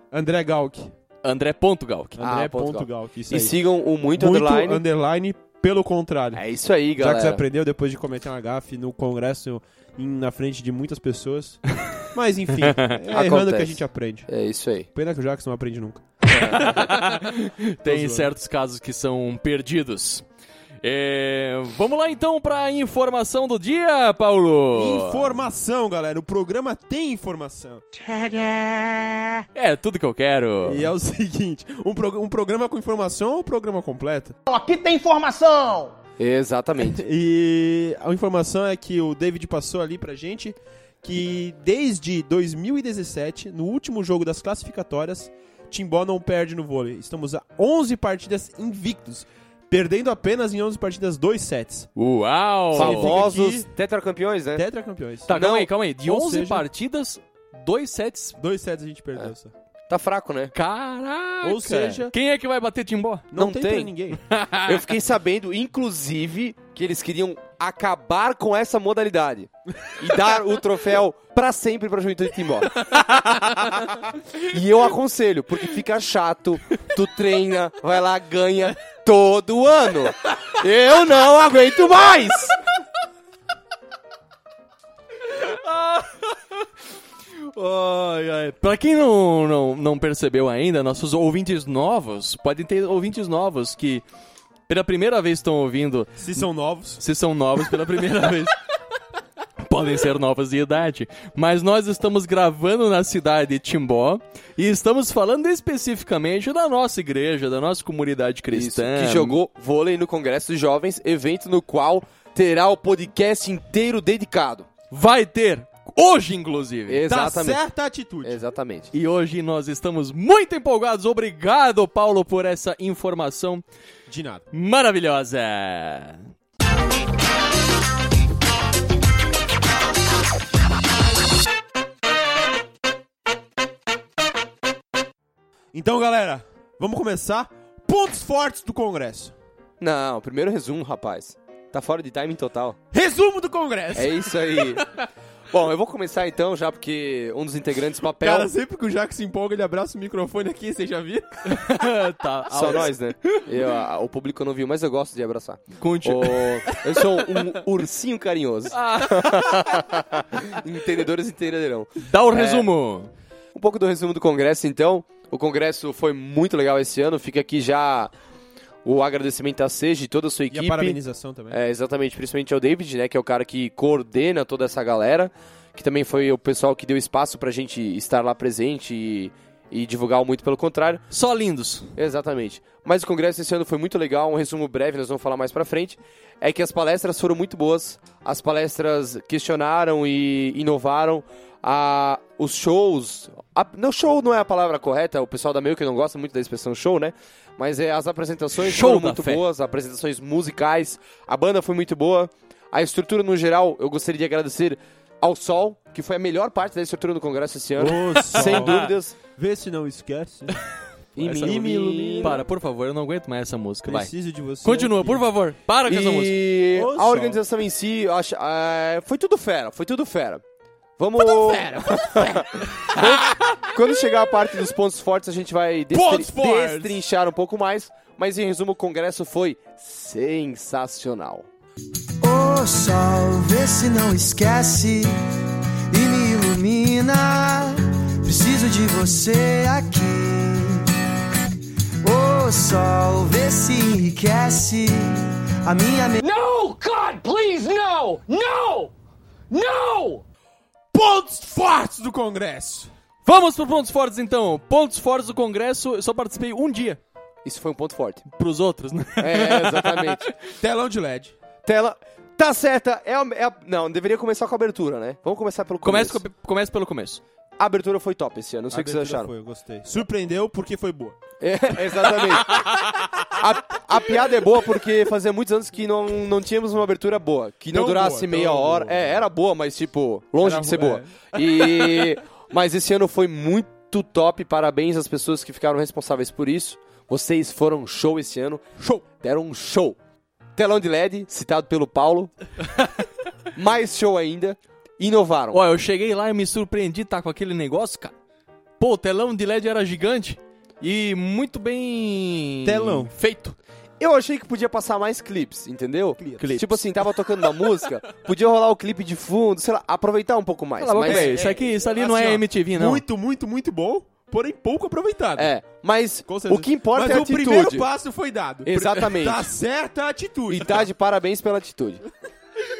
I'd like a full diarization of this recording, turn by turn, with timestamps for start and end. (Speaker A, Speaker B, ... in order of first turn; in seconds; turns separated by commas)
Speaker A: 0.1-0.9, Speaker B: 1.2-2.2, Speaker A: 2.2-3.6, Speaker C: 2.2-4.8, Speaker A: 4.2-6.4, Speaker C: 6.3-7.4, Speaker A: 7.0-14.3, Speaker C: 13.1-14.9, Speaker A: 14.9-17.2, Speaker C: 16.3-16.7, Speaker B: 16.4-20.2, Speaker A: 17.8-18.3, Speaker B: 20.8-25.4, Speaker A: 24.7-27.8, Speaker D: 28.0-29.4, Speaker B: 29.6-30.9, Speaker A: 30.6-34.4, Speaker D: 34.5-36.0, Speaker C: 36.2-37.0, Speaker A: 36.8-51.9, Speaker B: 52.0-53.1, Speaker A: 52.7-53.7, Speaker C: 52.7-54.6, Speaker A: 54.6-55.4, Speaker B: 55.3-58.4, Speaker C: 55.3-55.7, Speaker A: 56.1-56.7, Speaker A: 58.4-59.5, Speaker C: 59.9-60.5, Speaker B: 60.5-63.3, Speaker A: 61.4-62.1, Speaker A: 63.3-64.2, Speaker C: 63.4-63.9, Speaker B: 64.3-64.9, Speaker C: 64.6-72.8, Speaker B: 72.9-73.6, Speaker C: 74.3-82.6, Speaker B: 85.3-86.4, Speaker B: 87.4-94.0, Speaker B: 94.7-96.3, Speaker A: 96.2-97.0, Speaker B: 97.0-98.6, Speaker B: 99.6-109.4, Speaker C: 108.5-114.7, Speaker B: 114.9-117.0, Speaker C: 116.9-117.6, Speaker A: 117.0-118.4, Speaker C: 118.2-118.9, Speaker B: 118.9-123.6, Speaker A: 124.1-124.5, Speaker B: 124.5-126.3, Speaker A: 135.7-139.3, Speaker C: 139.8-142.8, Speaker A: 142.9-145.1, Speaker C: 143.9-144.9, Speaker C: 145.5-148.5, Speaker A: 148.2-151.6, Speaker B: 151.5-153.4, Speaker C: 152.5-162.7, Speaker B: 155.8-156.8, Speaker B: 158.7-159.9, Speaker B: 162.0-163.1, Speaker C: 163.6-168.1, Speaker C: 168.8-171.0, Speaker A: 170.5-171.6, Speaker C: 171.5-181.0, Speaker B: 181.1-181.9, Speaker C: 182.0-209.2, Speaker B: 198.6-199.4, Speaker A: 207.8-210.6, Speaker B: 208.2-208.8, Speaker C: 211.2-212.4, Speaker A: 211.2-212.4, Speaker B: 211.2-214.1, Speaker A: 213.8-215.2, Speaker B: 214.6-216.4, Speaker C: 215.9-220.4, Speaker A: 216.7-217.4, Speaker C: 221.0-231.5, Speaker A: 221.2-223.5, Speaker A: 225.9-227.0, Speaker D: 232.2-235.2, Speaker D: 235.9-240.9, Speaker D: 242.0-246.2, Speaker E: 246.2-248.9, Speaker E: 249.5-250.2, Speaker A: 250.9-252.9, Speaker B: 253.2-257.0, Speaker C: 257.4-258.2, Speaker B: 258.3-260.5, Speaker C: 259.2-260.2, Speaker A: 260.6-261.3, Speaker C: 261.6-266.2, Speaker B: 265.8-267.2, Speaker C: 267.6-269.3, Speaker A: 268.7-271.2, Speaker C: 271.4-272.6, Speaker A: 272.5-273.2, Speaker C: 273.2-290.0, Speaker A: 277.7-279.3, Speaker A: 280.4-282.0, Speaker C: 290.6-292.3, Speaker C: 293.6-295.6, Speaker B: 295.5-298.1, Speaker B: 298.8-303.6, Speaker A: 302.6-303.1, Speaker C: 304.0-311.4, Speaker B: 306.4-307.1, Speaker B: 310.8-313.0, Speaker A: 311.0-315.5, Speaker C: 315.4-317.9, Speaker A: 316.3-320.9, Speaker C: 318.6-319.5, Speaker C: 320.5-322.0